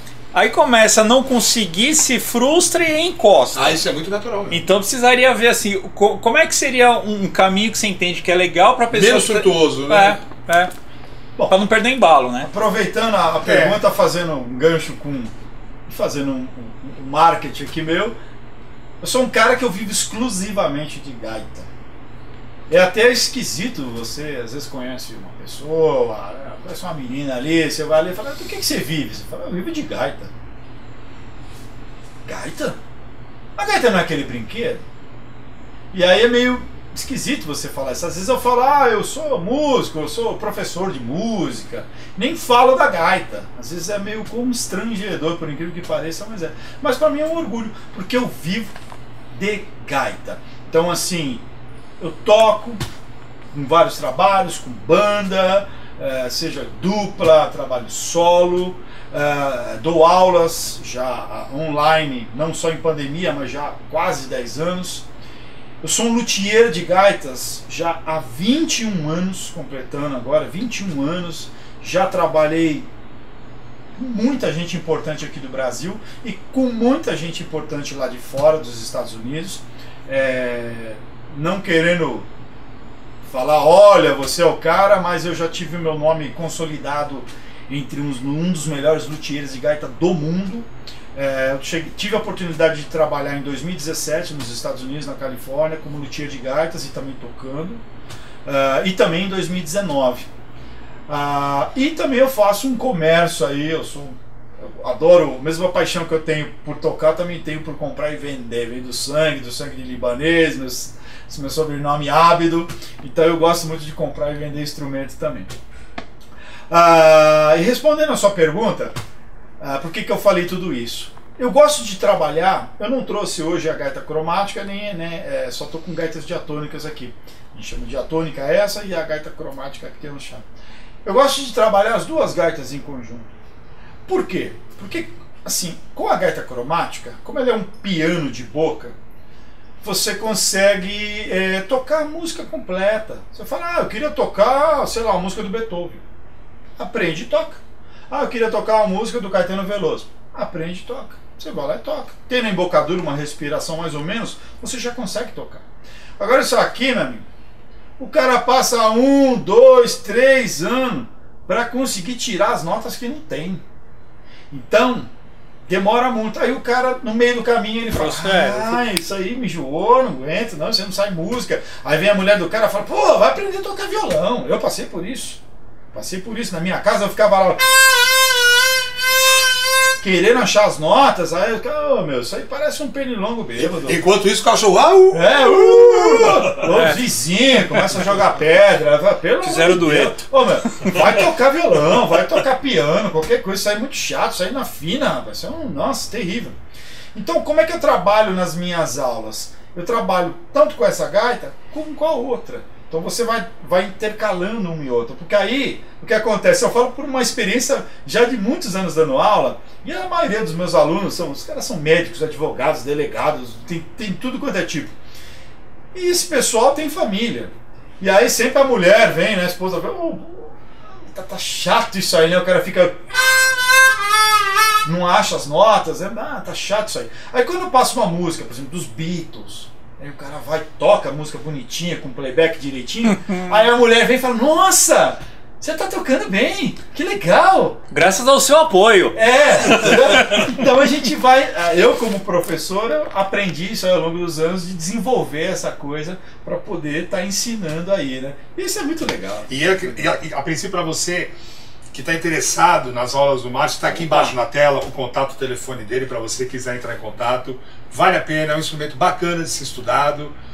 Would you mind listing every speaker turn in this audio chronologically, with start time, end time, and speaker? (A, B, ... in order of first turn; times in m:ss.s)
0:00.3-0:03.8 A
0:03.5-0:04.6 B
0:04.5-0:10.7 A
0:08.9-0:10.2 B
0:11.5-0:12.5 A
0:12.4-0:15.3 C
0:13.4-0:13.8 B
0:15.9-0:18.1 C
0:19.0-0:21.7 C
0:22.7-0:30.3 C
0:32.2-0:32.8 C
0:33.6-0:34.8 C
0:35.9-0:48.7 C
0:49.3-0:51.4 C
0:52.0-0:52.8 C
0:53.5-1:05.0 C
1:05.8-1:12.9 C
1:13.9-1:22.3 C
1:23.2-1:37.8 C
1:38.4-1:40.3 C
1:41.1-1:55.6 C
1:56.7-1:59.0 C
1:59.6-2:10.4 C
2:11.0-2:13.3 C
2:14.0-2:18.9 C
2:19.8-2:26.0 C
2:26.8-2:35.6 C
2:36.2-2:37.2 C
2:38.0-2:43.6 C
2:44.5-2:45.1 C
2:45.7-2:55.4 C
2:47.9-2:48.8 A
2:55.9-2:57.6 C
3:00.0-3:04.0 C
3:03.6-3:06.4 B
3:05.1-3:16.6 C
3:06.5-3:07.0 A
3:09.4-3:11.0 A
3:17.1-3:34.9 C
3:35.9-3:43.1 C
3:44.8-3:57.8 C
3:57.9-3:59.2 A
3:59.1-4:10.0 C
3:59.7-4:00.4 A
4:09.5-4:11.3 B
4:11.9-4:20.3 B
4:13.9-4:14.3 C